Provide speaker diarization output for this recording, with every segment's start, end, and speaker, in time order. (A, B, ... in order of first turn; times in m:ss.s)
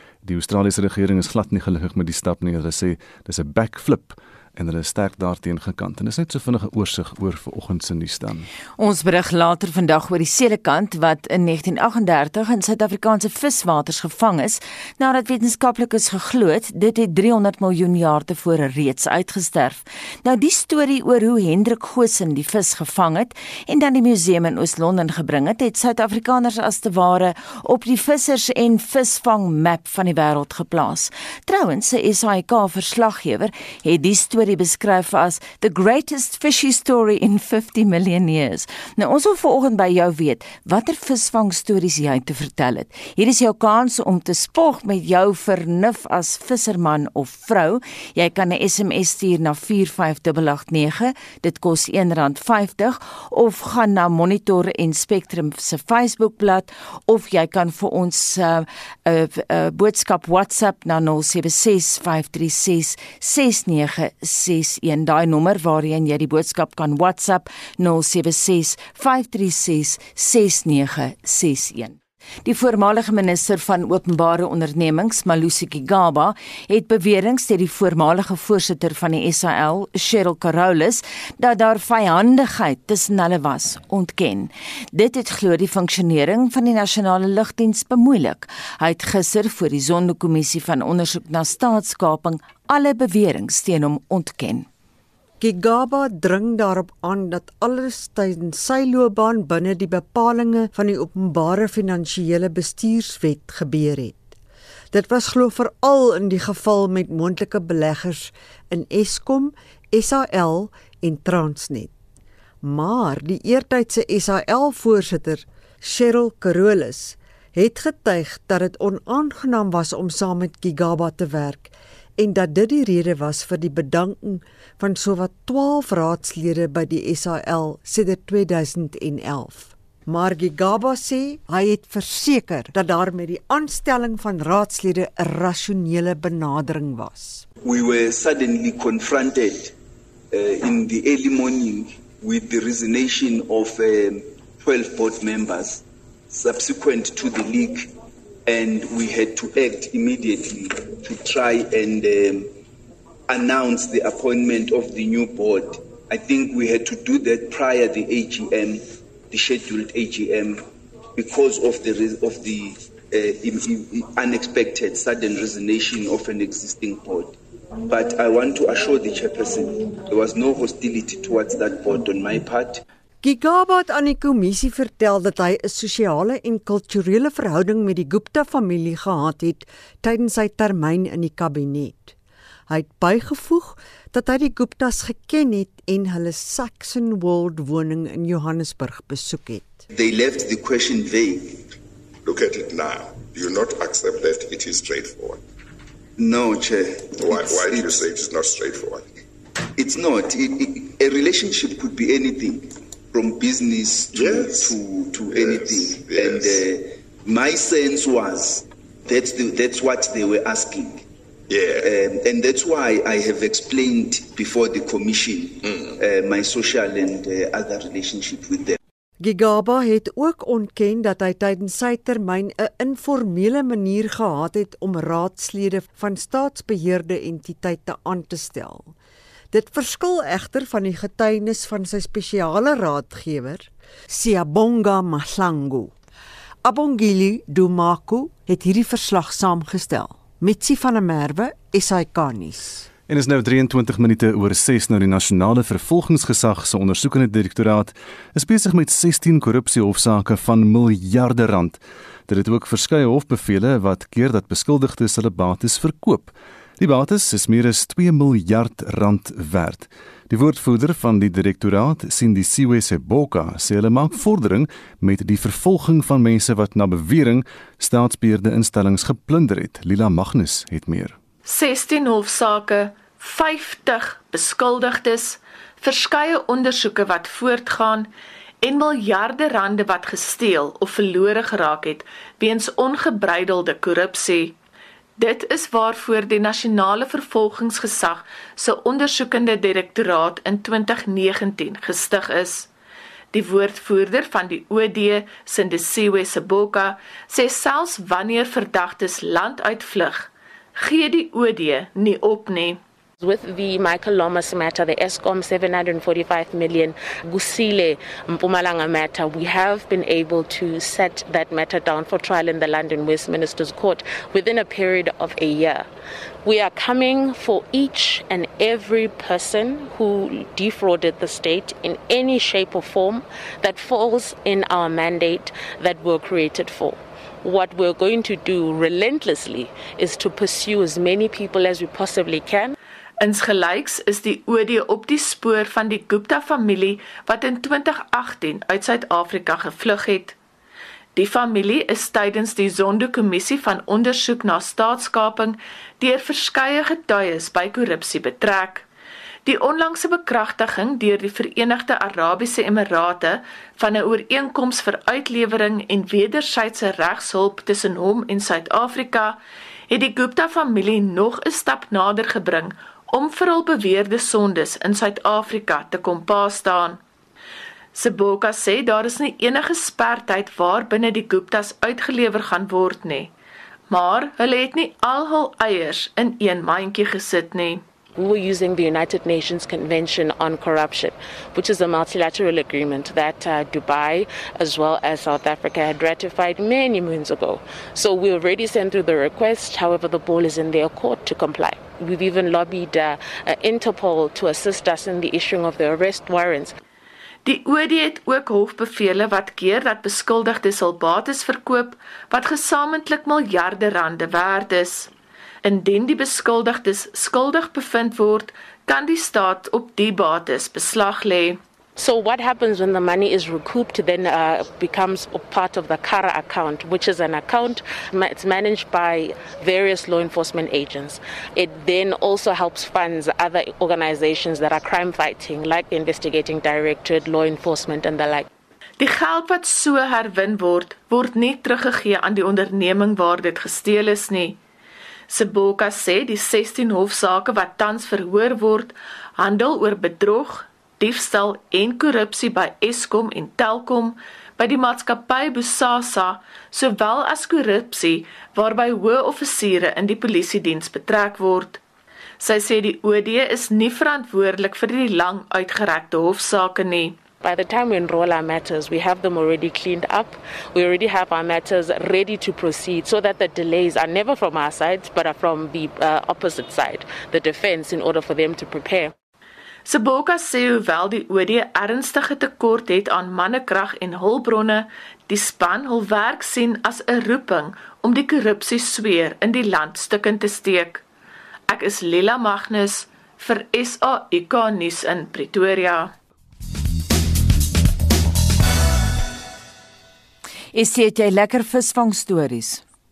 0:00.2-0:08.5 A
0:08.8-1:34.7 B
1:35.4-1:44.3 C
1:44.9-1:51.9 C
1:52.6-2:17.4 C
2:17.6-2:19.7 D
2:20.3-2:27.9 D
2:28.5-2:32.5 D
2:33.3-2:40.6 D
2:41.2-2:47.4 D
2:47.9-2:52.8 D
2:53.2-3:02.2 C
3:02.7-3:09.9 C
3:09.9-3:11.6 D
3:12.2-3:15.4 E
3:16.2-3:18.2 D
3:17.2-3:19.1 E
3:19.8-3:31.0 D
3:24.1-3:26.6 E
3:31.5-3:31.9 E
3:31.8-3:38.8 D
3:35.6-3:36.0 E
3:39.2-3:48.9 C
3:49.5-3:55.9 C
3:56.6-4:02.9 C
4:03.1-4:31.2 A
4:31.5-4:38.1 F
4:38.6-4:44.6 F
4:45.2-4:52.7 F
4:53.3-5:02.8 F
5:03.2-5:15.9 G
5:16.4-5:32.8 G
5:33.2-5:40.4 F
5:41.2-5:48.9 F
5:49.4-6:07.0 F
6:08.0-6:13.3 F
6:13.9-6:17.8 F
6:18.2-6:36.8 G
6:37.4-6:45.1 F
6:45.6-6:51.6 F
6:52.0-7:08.5 G
7:09.0-7:14.6 F
7:15.3-7:31.8 F
7:32.4-7:37.2 F
7:37.4-7:49.1 G
7:49.9-8:01.0 F
8:01.7-8:06.1 F
8:10.7-8:12.8 B